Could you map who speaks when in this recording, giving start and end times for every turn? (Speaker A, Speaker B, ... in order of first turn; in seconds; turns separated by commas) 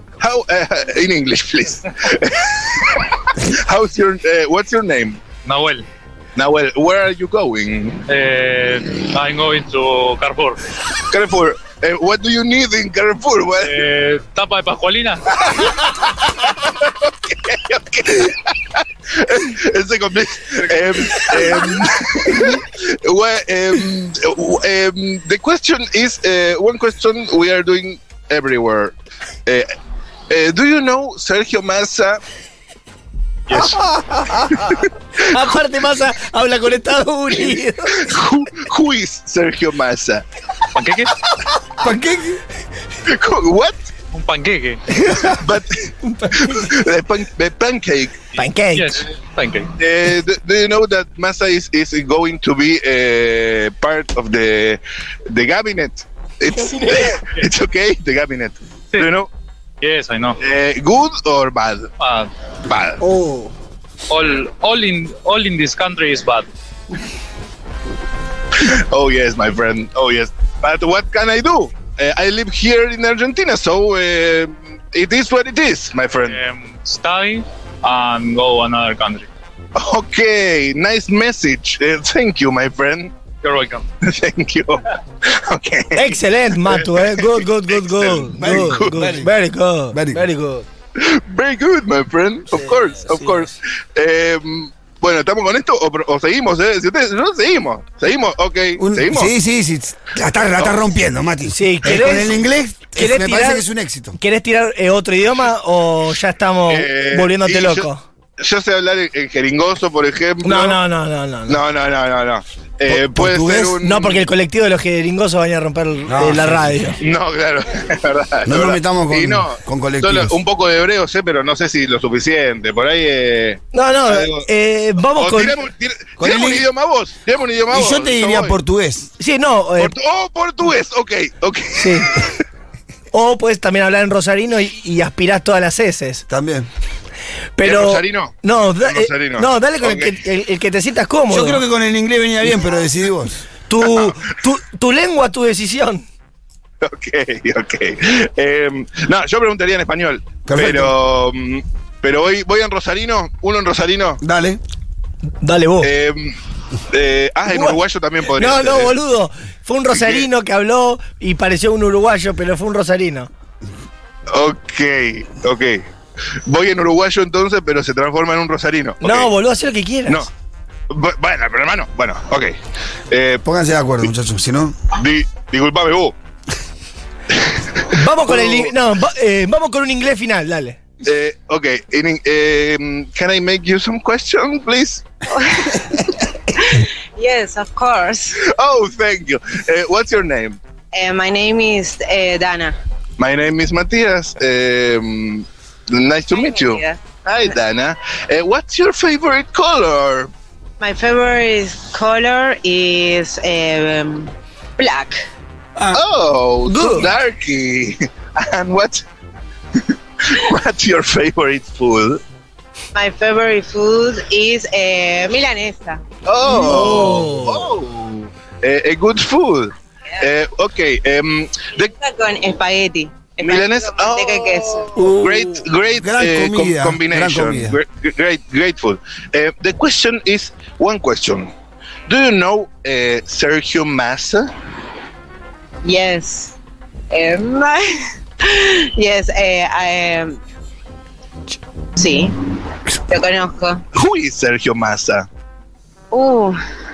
Speaker A: 0.2-5.2, Speaker B: 5.5-5.8, Speaker A: 6.4-8.1, Speaker B: 8.1-10.6, Speaker A: 11.1-13.9, Speaker B: 13.6-15.2, Speaker A: 15.4-28.9, Speaker A: 29.5-29.7, Speaker A: 30.3-32.2, Speaker C: 34.2-38.0, Speaker A: 34.5-34.8, Speaker A: 37.9-40.2, Speaker B: 40.8-41.1, Speaker D: 41.8-42.4, Speaker A: 43.0-43.8, Speaker B: 44.1-44.8, Speaker A: 45.2-48.2, Speaker C: 46.0-46.7, Speaker C: 48.4-49.0, Speaker B: 48.7-49.7, Speaker A: 49.8-59.3, Speaker C: 56.6-57.0, Speaker B: 59.8-60.4, Speaker A: 60.4-61.9, Speaker B: 62.0-62.3, Speaker A: 62.7-63.0, Speaker C: 63.0-63.5, Speaker B: 64.1-66.5, Speaker A: 68.6-76.4, Speaker B: 76.2-79.3, Speaker A: 79.8-83.1, Speaker B: 83.4-83.8, Speaker A: 84.0-89.1, Speaker C: 86.0-90.7, Speaker D: 88.4-89.3, Speaker D: 89.9-90.2, Speaker A: 91.0-99.3, Speaker C: 92.6-93.5, Speaker D: 98.8-104.2, Speaker C: 101.5-102.4, Speaker C: 102.9-103.7, Speaker C: 104.2-108.0, Speaker A: 106.7-110.8, Speaker C: 110.4-111.6, Speaker A: 111.5-114.3, Speaker D: 112.9-113.8, Speaker C: 113.8-117.0, Speaker D: 116.1-116.7, Speaker A: 117.0-124.5, Speaker D: 118.5-120.4, Speaker C: 123.7-125.6, Speaker A: 125.2-128.6, Speaker D: 126.2-126.7, Speaker D: 127.7-129.1, Speaker C: 129.2-129.9, Speaker A: 129.8-132.3, Speaker C: 131.8-132.1, Speaker C: 133.1-136.2, Speaker D: 136.3-136.7, Speaker C: 137.6-141.6, Speaker A: 137.6-140.2, Speaker D: 141.3-143.4, Speaker C: 143.7-146.1, Speaker A: 146.8-154.2, Speaker D: 150.5-150.9, Speaker D: 154.2-154.6, Speaker C: 155.4-155.9, Speaker A: 155.8-156.4, Speaker A: 156.9-158.9, Speaker C: 157.5-157.8, Speaker C: 158.4-163.3, Speaker A: 159.9-160.3, Speaker A: 164.3-165.9, Speaker A: 166.4-169.3, Speaker C: 169.0-170.3, Speaker A: 170.9-172.6, Speaker A: 173.1-173.4, Speaker D: 173.5-174.8, Speaker A: 174.9-176.1, Speaker A: 177.4-178.7, Speaker C: 177.9-180.8, Speaker A: 181.0-185.0, Speaker E: 185.3-188.4, Speaker A: 188.4-190.6, Speaker E: 190.9-192.8, Speaker A: 193.2-200.3, Speaker E: 196.3-197.6, Speaker E: 200.8-205.2, Speaker A: 205.9-209.0, Speaker C: 206.7-207.1, Speaker A: 209.8-212.2, Speaker E: 212.9-216.0, Speaker A: 216.2-221.9, Speaker C: 216.5-217.7, Speaker E: 221.8-224.9, Speaker A: 223.4-231.5, Speaker D: 225.0-227.8, Speaker A: 232.1-234.5, Speaker E: 235.8-236.6, Speaker E: 237.1-240.4, Speaker E: 242.0-242.6, Speaker E: 243.1-243.8, Speaker A: 243.9-245.3, Speaker E: 246.1-246.6